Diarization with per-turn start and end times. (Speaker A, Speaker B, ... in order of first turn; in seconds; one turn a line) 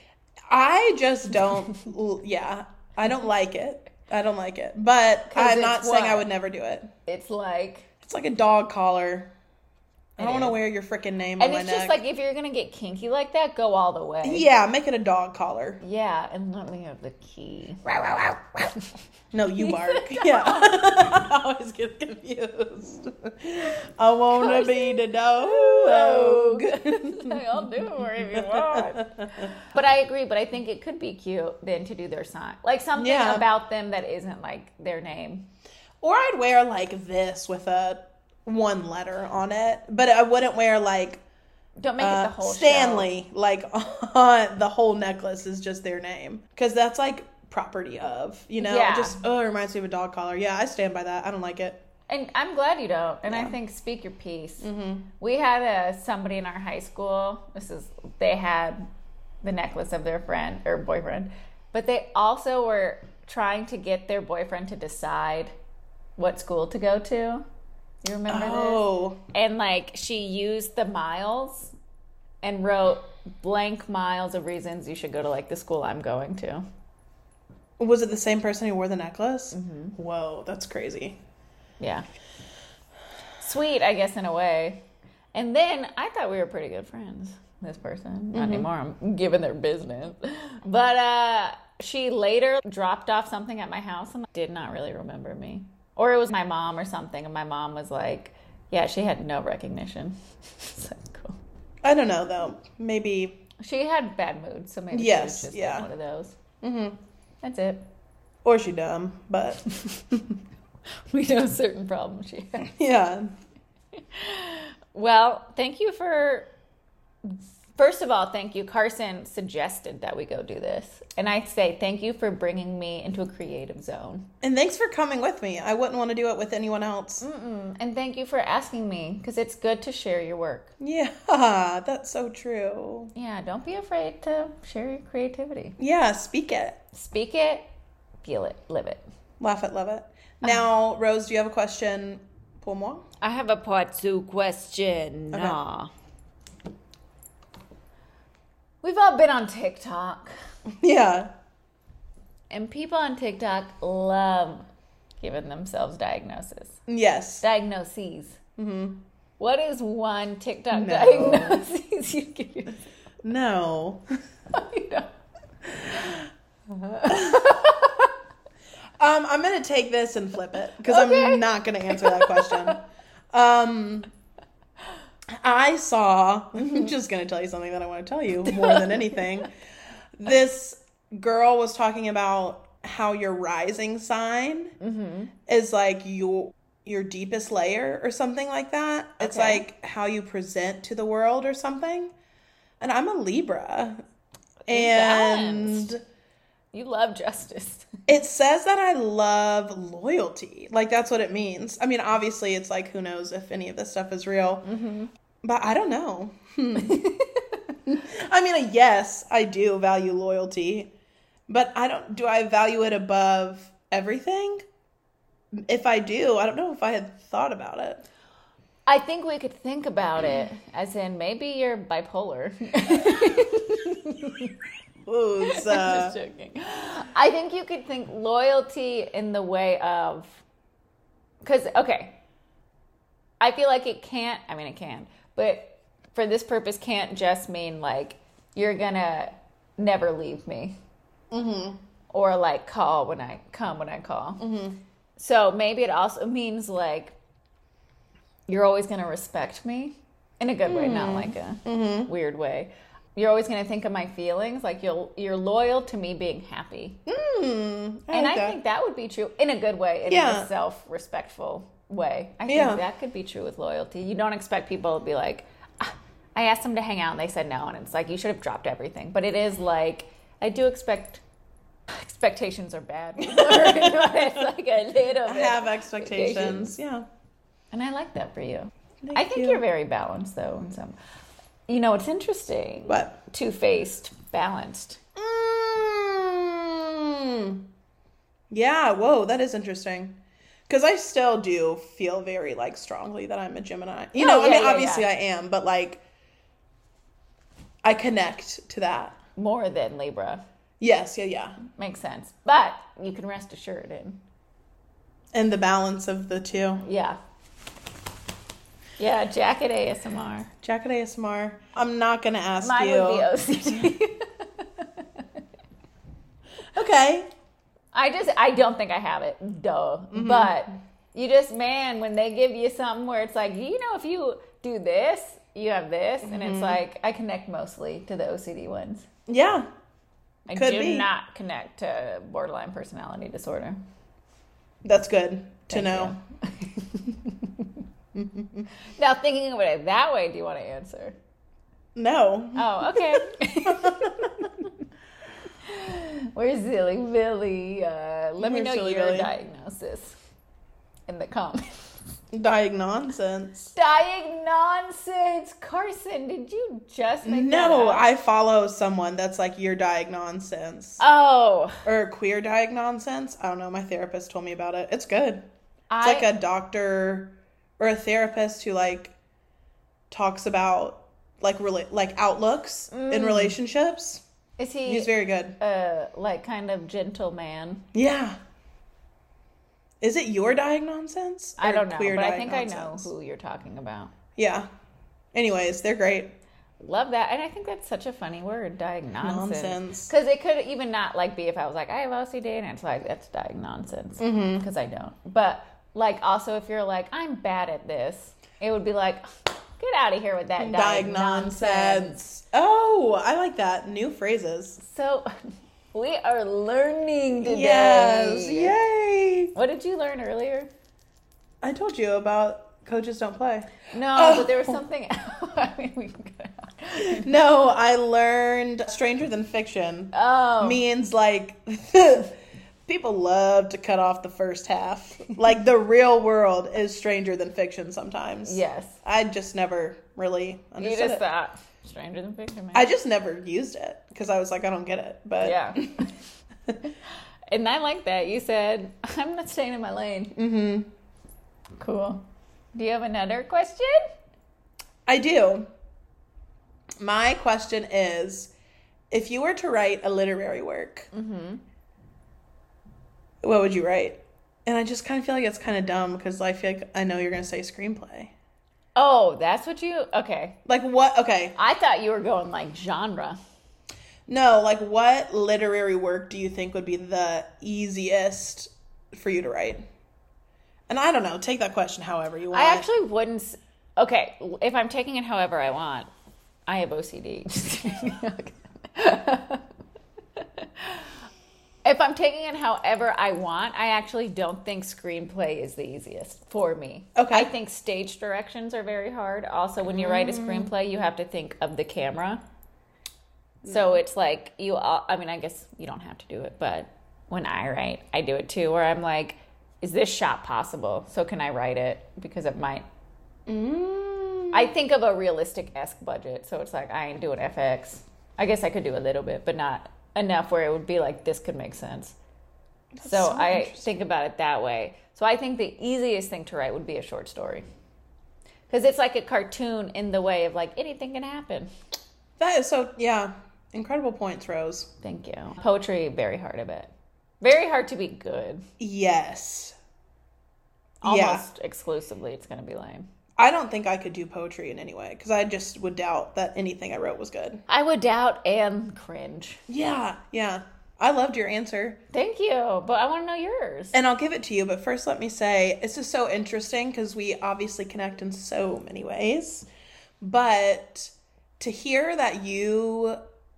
Speaker A: 0.5-6.9
Speaker B: 5.3-6.3
Speaker B: 7.1-7.9
Speaker A: 8.0-9.3
Speaker A: 10.2-12.0
Speaker B: 10.2-10.6
Speaker B: 11.4-14.5
Speaker A: 14.2-15.8
Speaker B: 15.8-17.9
Speaker A: 17.8-18.7
Speaker A: 19.3-27.7
Speaker B: 19.6-20.8
Speaker B: 24.3-35.5
Speaker A: 28.2-29.5
Speaker A: 33.0-33.5
Speaker A: 36.0-41.2
Speaker B: 41.8-43.1
Speaker A: 42.0-51.8
Speaker B: 48.6-49.2
Speaker B: 52.1-54.7
Speaker A: 53.3-53.5
Speaker A: 54.6-55.1
Speaker B: 55.2-58.9
Speaker B: 59.4-65.5
Speaker B: 66.2-67.5
Speaker B: 68.0-71.7
Speaker A: 68.3-69.2
Speaker B: 72.4-76.7
Speaker A: 77.8-81.2
Speaker B: 79.5-80.0
Speaker B: 81.8-82.0
Speaker B: 83.4-84.8
Speaker B: 85.3-101.4
Speaker A: 88.3-88.7
Speaker A: 101.8-103.4
Speaker B: 103.6-106.3
Speaker A: 104.9-105.9
Speaker A: 106.6-107.0
Speaker B: 107.4-107.8
Speaker A: 108.4-109.6
Speaker B: 111.1-112.7
Speaker A: 112.6-113.3
Speaker B: 114.0-116.5
Speaker B: 117.2-124.3
Speaker A: 124.4-127.2
Speaker B: 127.2-130.7
Speaker A: 130.8-133.1
Speaker B: 133.1-135.8
Speaker A: 135.8-136.8
Speaker B: 136.9-137.7
Speaker B: 138.2-139.0
Speaker A: 139.4-143.0
Speaker B: 143.2-145.9
Speaker A: 145.3-145.6
Speaker B: 148.8-150.3
Speaker A: 150.8-151.3
Speaker B: 152.5-154.7
Speaker B: 155.2-156.8
Speaker A: 156.9-157.4
Speaker B: 157.4-158.4
Speaker A: 158.6-159.0
Speaker B: 159.4-162.8
Speaker A: 160.7-161.6
Speaker A: 163.2-164.0
Speaker B: 164.5-165.1
Speaker B: 165.8-166.2
Speaker B: 166.7-168.1
Speaker A: 167.1-167.5
Speaker A: 169.0-174.1
Speaker B: 170.8-172.8
Speaker A: 175.3-179.5
Speaker B: 178.5-179.4
Speaker A: 180.2-184.7
Speaker B: 184.8-185.3
Speaker A: 185.4-192.1
Speaker B: 189.2-189.6
Speaker A: 192.8-194.0
Speaker B: 194.7-195.9
Speaker A: 194.7-196.0
Speaker B: 196.7-197.9
Speaker A: 198.1-204.7
Speaker B: 204.6-205.1
Speaker A: 205.4-207.1
Speaker B: 206.8-207.6
Speaker A: 207.8-210.9
Speaker A: 211.5-214.6
Speaker A: 215.5-218.0
Speaker B: 218.9-224.5
Speaker A: 225.1-226.2
Speaker B: 225.4-230.4
Speaker B: 231.4-232.2
Speaker B: 233.4-240.8
Speaker A: 241.3-241.8
Speaker B: 242.1-244.4
Speaker A: 244.4-244.8
Speaker B: 245.2-247.1
Speaker B: 248.5-257.0
Speaker A: 250.6-252.1
Speaker A: 257.1-258.6
Speaker B: 258.1-271.2
Speaker A: 260.1-260.5
Speaker A: 262.5-262.8
Speaker B: 271.9-276.7
Speaker A: 273.2-274.4
Speaker A: 275.2-277.1
Speaker B: 277.7-280.9
Speaker A: 279.0-279.6
Speaker B: 281.7-285.0
Speaker A: 282.9-283.1
Speaker A: 285.1-287.6
Speaker A: 288.5-296.0
Speaker B: 294.1-295.1
Speaker A: 297.8-299.2
Speaker B: 299.4-300.4
Speaker A: 300.8-301.6
Speaker B: 301.6-304.2
Speaker A: 305.3-306.8
Speaker B: 306.8-307.2
Speaker B: 309.0-310.5
Speaker A: 310.6-313.8
Speaker B: 312.6-315.2
Speaker A: 316.7-317.3
Speaker B: 317.9-329.1
Speaker A: 320.1-320.6
Speaker A: 326.2-326.8
Speaker A: 329.3-329.7
Speaker B: 330.5-333.8
Speaker A: 330.5-331.1
Speaker A: 334.8-336.1
Speaker B: 335.7-337.6
Speaker A: 338.1-338.7
Speaker B: 338.9-341.1
Speaker A: 341.9-344.5
Speaker B: 342.6-344.5
Speaker B: 345.6-350.2
Speaker A: 348.4-349.3
Speaker B: 351.1-351.8
Speaker A: 352.3-353.7
Speaker B: 353.7-358.1
Speaker A: 357.2-361.0
Speaker B: 361.0-361.8
Speaker A: 361.8-365.4
Speaker B: 365.9-366.3
Speaker A: 366.0-369.1
Speaker A: 370.1-374.2
Speaker B: 372.9-373.6
Speaker B: 374.6-377.8
Speaker A: 374.8-375.6
Speaker A: 377.9-378.4
Speaker A: 380.0-383.1
Speaker B: 381.6-384.1
Speaker A: 384.4-384.7
Speaker A: 385.3-386.4
Speaker B: 386.8-402.2
Speaker A: 389.2-390.1
Speaker A: 394.2-394.6
Speaker A: 400.6-404.8
Speaker B: 404.8-405.3
Speaker B: 405.9-408.7
Speaker A: 407.4-409.5
Speaker B: 409.5-410.7
Speaker A: 411.6-414.8
Speaker B: 413.9-417.3
Speaker A: 417.0-431.2
Speaker B: 420.1-420.8
Speaker B: 428.4-429.0
Speaker B: 430.8-432.9
Speaker A: 432.7-436.0
Speaker B: 435.4-435.9
Speaker B: 437.5-440.4
Speaker A: 440.4-440.9
Speaker B: 441.8-444.1
Speaker A: 445.1-445.7
Speaker A: 447.0-448.5
Speaker A: 449.1-451.1
Speaker B: 451.1-451.6
Speaker A: 453.4-458.3
Speaker B: 458.9-460.6
Speaker A: 460.6-461.5
Speaker B: 461.6-463.4
Speaker A: 464.3-469.8
Speaker A: 470.9-472.9
Speaker B: 472.5-476.1
Speaker B: 476.7-479.6
Speaker B: 480.4-481.1
Speaker B: 481.8-492.4
Speaker A: 487.1-487.5
Speaker A: 489.9-490.7
Speaker A: 493.6-494.0
Speaker B: 493.6-502.9
Speaker A: 503.5-504.7
Speaker B: 504.5-512.1
Speaker A: 512.9-513.9
Speaker B: 513.0-517.6
Speaker B: 518.7-521.7
Speaker A: 522.4-524.9
Speaker B: 525.0-526.9
Speaker B: 527.4-528.6
Speaker A: 528.8-529.7
Speaker B: 531.0-533.1
Speaker A: 531.0-531.5
Speaker A: 533.4-537.6
Speaker B: 537.7-539.6
Speaker A: 539.7-542.0
Speaker B: 542.1-544.0
Speaker A: 543.9-549.7
Speaker A: 550.2-553.2